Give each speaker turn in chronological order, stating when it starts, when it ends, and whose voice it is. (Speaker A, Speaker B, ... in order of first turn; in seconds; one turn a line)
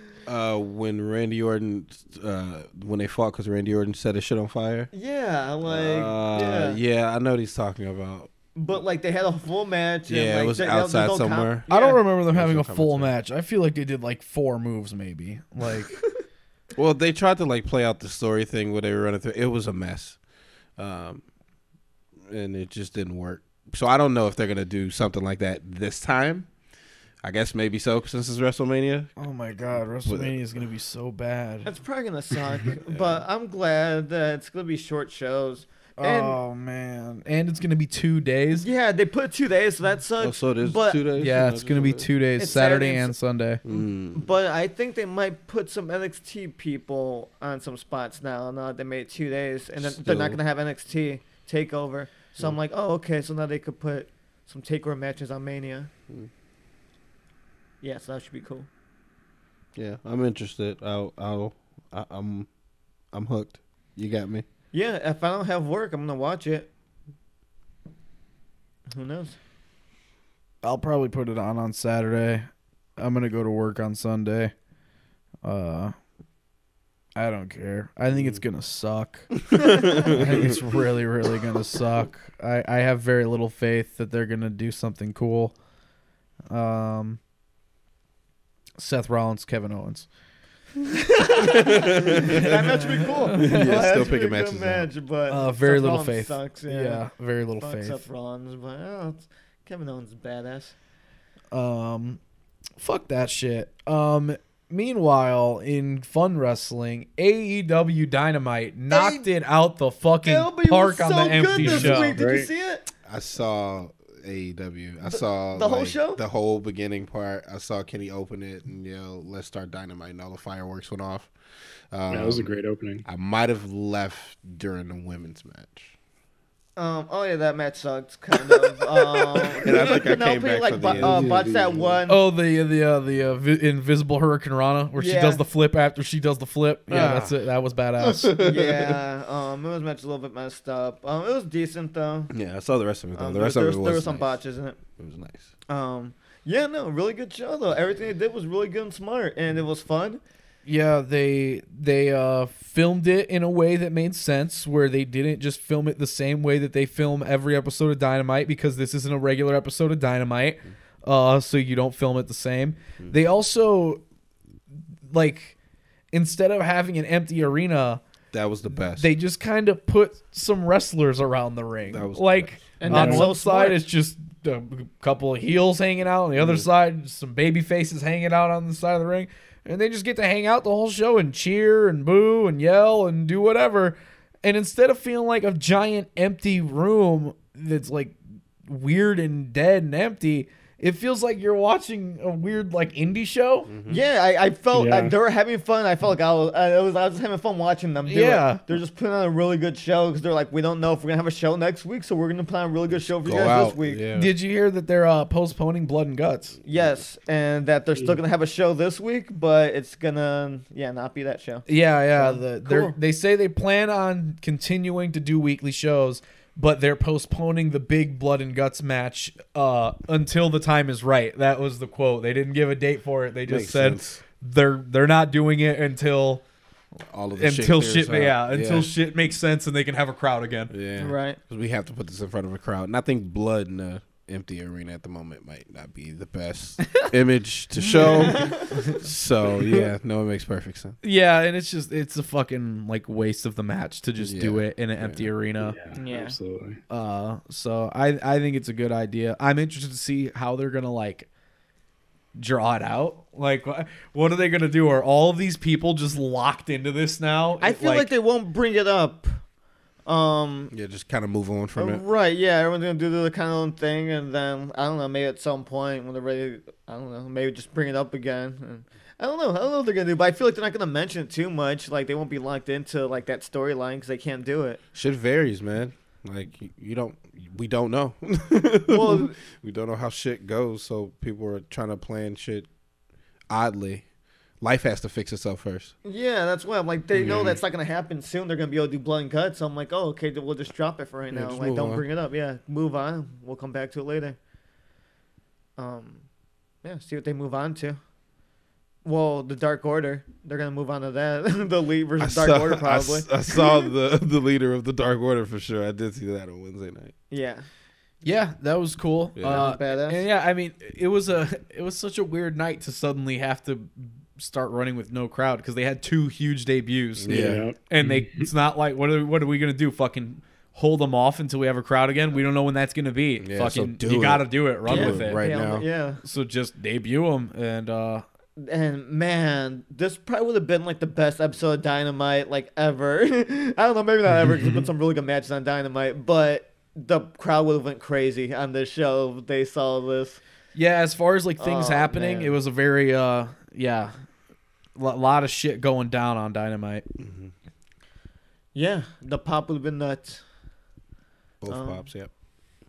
Speaker A: 0.3-4.9
Speaker B: 4.9-6.8
Speaker A: 5.6-8.3
Speaker B: 8.5-12.0
Speaker A: 10.1-11.7
Speaker C: 11.7-16.0
Speaker A: 12.3-13.1
Speaker A: 16.8-20.2
Speaker A: 20.8-21.2
Speaker A: 22.2-26.5
Speaker A: 27.2-29.2
Speaker C: 29.2-31.7
Speaker A: 30.0-30.4
Speaker B: 31.6-36.4
Speaker A: 32.9-33.2
Speaker C: 36.0-38.6
Speaker B: 38.6-41.0
Speaker A: 40.2-42.1
Speaker C: 41.1-43.6
Speaker B: 42.4-43.1
Speaker A: 43.6-44.3
Speaker B: 43.7-55.9
Speaker A: 49.8-50.4
Speaker B: 57.8-58.7
Speaker A: 59.7-62.5
Speaker A: 63.1-64.4
Speaker B: 64.7-66.7
Speaker B: 68.9-69.3
Speaker C: 70.6-72.5
Speaker C: 73.0-74.5
Speaker C: 75.4-75.9
Speaker C: 77.2-79.4
Speaker A: 78.1-78.4
Speaker A: 79.5-80.5
Speaker C: 79.9-85.5
Speaker C: 86.5-87.2
Speaker C: 88.8-90.1
Speaker C: 91.3-93.8
Speaker A: 91.4-92.7
Speaker B: 91.4-97.0
Speaker A: 93.3-94.9
Speaker C: 95.3-98.0
Speaker B: 97.6-100.7
Speaker C: 101.5-102.2
Speaker C: 102.8-112.2
Speaker B: 108.9-109.2
Speaker B: 110.2-112.9
Speaker D: 111.6-112.5
Speaker A: 113.0-121.3
Speaker B: 115.1-116.2
Speaker A: 121.9-122.5
Speaker D: 122.1-123.0
Speaker A: 123.0-125.9
Speaker B: 126.8-132.2
Speaker A: 129.2-132.0
Speaker D: 130.9-131.9
Speaker C: 132.1-138.3
Speaker B: 135.0-135.4
Speaker A: 136.9-137.4
Speaker A: 138.0-139.0
Speaker B: 138.4-142.3
Speaker A: 142.3-144.3
Speaker B: 143.2-144.8
Speaker A: 145.0-145.5
Speaker B: 145.7-150.2
Speaker C: 150.7-164.0
Speaker C: 165.1-165.5
Speaker C: 166.1-168.0
Speaker A: 168.3-169.1
Speaker C: 168.9-193.7
Speaker A: 171.9-172.6
Speaker B: 172.8-173.8
Speaker D: 172.9-173.3
Speaker A: 176.4-176.6
Speaker A: 193.7-194.0
Speaker B: 193.9-204.0
Speaker D: 194.7-195.1
Speaker C: 198.1-198.6
Speaker A: 203.2-204.3
Speaker C: 204.1-206.6
Speaker B: 206.6-212.9
Speaker C: 211.7-226.4
Speaker A: 223.5-224.2
Speaker A: 227.1-228.9
Speaker C: 227.4-230.7
Speaker A: 230.7-241.0
Speaker B: 231.0-231.4
Speaker B: 237.8-238.7
Speaker C: 241.0-245.8
Speaker A: 244.2-245.3
Speaker D: 245.6-246.8
Speaker B: 245.9-246.3
Speaker C: 246.9-251.3
Speaker C: 252.3-258.1
Speaker B: 257.6-259.4
Speaker B: 260.1-260.7
Speaker A: 260.7-262.0
Speaker B: 261.8-274.8
Speaker A: 274.9-282.7
Speaker B: 278.9-279.3
Speaker A: 283.5-284.0
Speaker A: 284.6-285.9
Speaker B: 286.0-294.4
Speaker A: 291.3-292.0
Speaker B: 295.8-296.2
Speaker B: 296.8-298.0
Speaker B: 299.0-303.9
Speaker A: 302.2-307.1
Speaker B: 307.3-307.6
Speaker C: 308.2-325.4
Speaker A: 309.4-309.7
Speaker B: 309.5-310.2
Speaker A: 317.2-317.6
Speaker D: 317.3-318.5
Speaker A: 323.4-325.8
Speaker B: 324.9-326.2
Speaker C: 326.2-328.2
Speaker B: 328.6-340.4
Speaker C: 340.7-344.1
Speaker B: 341.6-342.6
Speaker C: 344.9-347.1
Speaker A: 347.2-347.5
Speaker B: 348.7-350.4
Speaker A: 351.6-352.3
Speaker B: 351.7-352.1